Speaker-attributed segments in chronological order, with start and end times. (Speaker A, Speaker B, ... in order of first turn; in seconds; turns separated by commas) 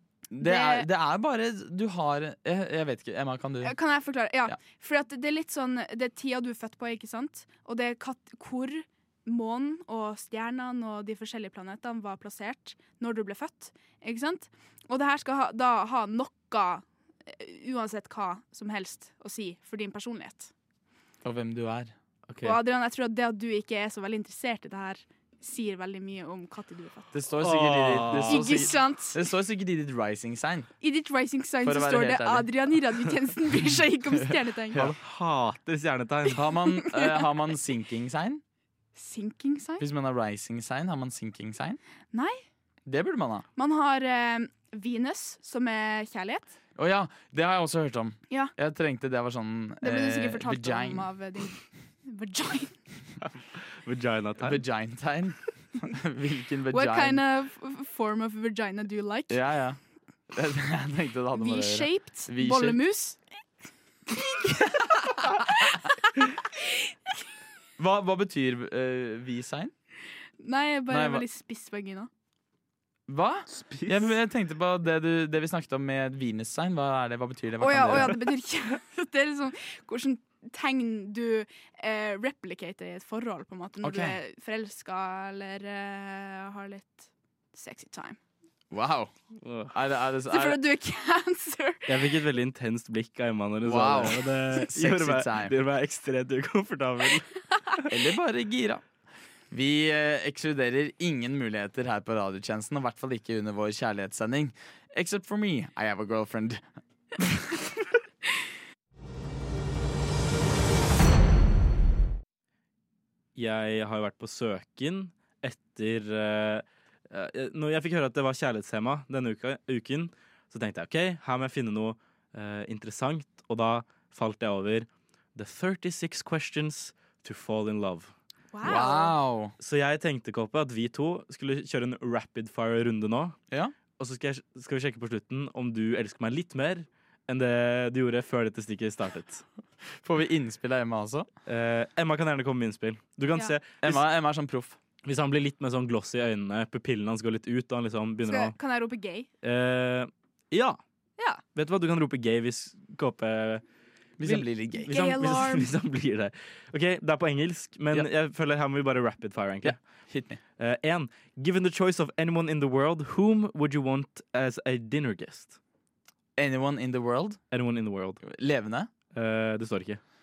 Speaker A: 0.3-3.7, Speaker B: 0.4-0.9, Speaker B: 3.6-20.5, Speaker A: 21.2-21.9, Speaker C: 22.3-22.6, Speaker B: 22.4-27.1, Speaker A: 27.1-30.7, Speaker C: 27.4-28.6, Speaker B: 28.2-29.2, Speaker B: 30.8-34.9, Speaker A: 31.6-32.5, Speaker C: 34.8-36.5, Speaker A: 36.3-38.4, Speaker B: 36.8-37.2, Speaker B: 39.0-39.9, Speaker A: 39.8-41.8, Speaker B: 42.1-42.4, Speaker A: 42.9-43.4, Speaker B: 43.5-46.5, Speaker A: 46.8-51.0, Speaker B: 49.8-52.8, Speaker C: 53.8-54.6, Speaker A: 54.4-57.2, Speaker B: 56.7-59.4, Speaker A: 59.3-59.8, Speaker A: 60.3-62.8, Speaker B: 61.3-63.2, Speaker B: 64.5-66.1, Speaker A: 67.8-69.7, Speaker B: 70.4-72.1, Speaker A: 70.9-71.2, Speaker A: 73.1-78.1, Speaker C: 73.5-74.0, Speaker B: 77.6-88.2, Speaker A: 83.8-84.2, Speaker A: 88.7-89.1, Speaker C: 89.4-89.7, Speaker A: 89.7-90.6, Speaker B: 90.3-91.9, Speaker C: 91.9-97.9, Speaker A: 93.6-95.5, Speaker A: 97.9-98.8, Speaker A: 99.5-106.6, Speaker A: 107.2-107.6, Speaker C: 113.3-128.1, Speaker B: 128.5-129.1, Speaker A: 128.6-129.5, Speaker C: 129.6-133.4, Speaker C: 134.0-139.4, Speaker A: 139.9-141.3, Speaker C: 141.4-144.0, Speaker A: 143.8-144.8, Speaker C: 145.0-148.5, Speaker B: 148.2-149.3, Speaker C: 149.4-150.8, Speaker C: 151.5-153.6, Speaker A: 154.2-154.9, Speaker C: 154.2-159.8, Speaker B: 154.9-155.7, Speaker A: 159.6-160.4, Speaker C: 160.6-165.6, Speaker A: 166.4-167.4, Speaker C: 167.5-168.2, Speaker A: 168.2-168.9, Speaker C: 169.1-170.0